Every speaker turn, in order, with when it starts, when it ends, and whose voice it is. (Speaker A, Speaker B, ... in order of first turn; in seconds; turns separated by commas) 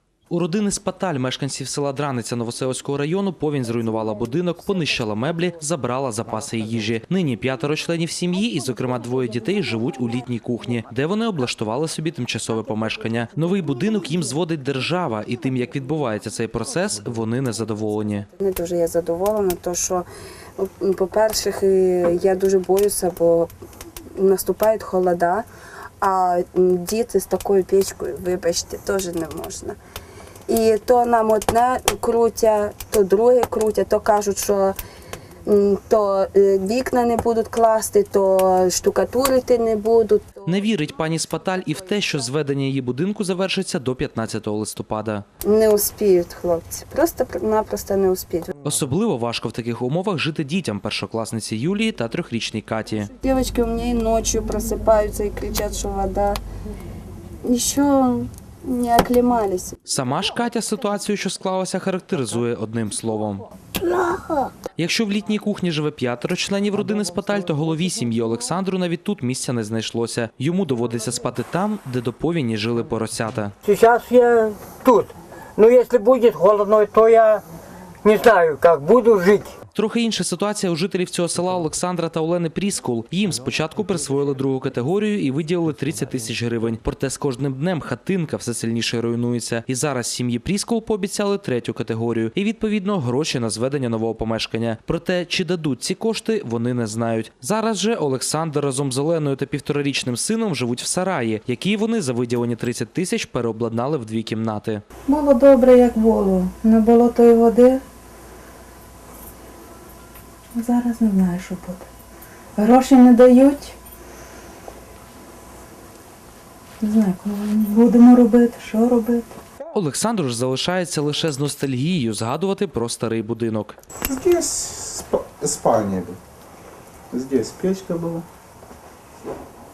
Speaker A: 0.3-18.3, Speaker B: 18.4-20.1, Speaker B: 20.6-23.5, Speaker B: 24.2-25.5, Speaker B: 26.0-29.8, Speaker B: 30.5-34.8, Speaker B: 35.5-40.6, Speaker A: 40.5-45.2, Speaker B: 45.5-48.5, Speaker A: 48.6-53.1, Speaker B: 53.2-56.4, Speaker B: 57.5-59.7, Speaker A: 59.9-63.4, Speaker A: 64.8-73.5, Speaker C: 73.6-77.4, Speaker C: 78.0-79.5, Speaker A: 79.8-104.8, Speaker D: 105.1-107.8, Speaker D: 110.6-111.8, Speaker D: 112.7-113.7, Speaker D: 116.9-119.2, Speaker A: 119.7-123.8, Speaker E: 124.1-126.2, Speaker E: 127.1-128.2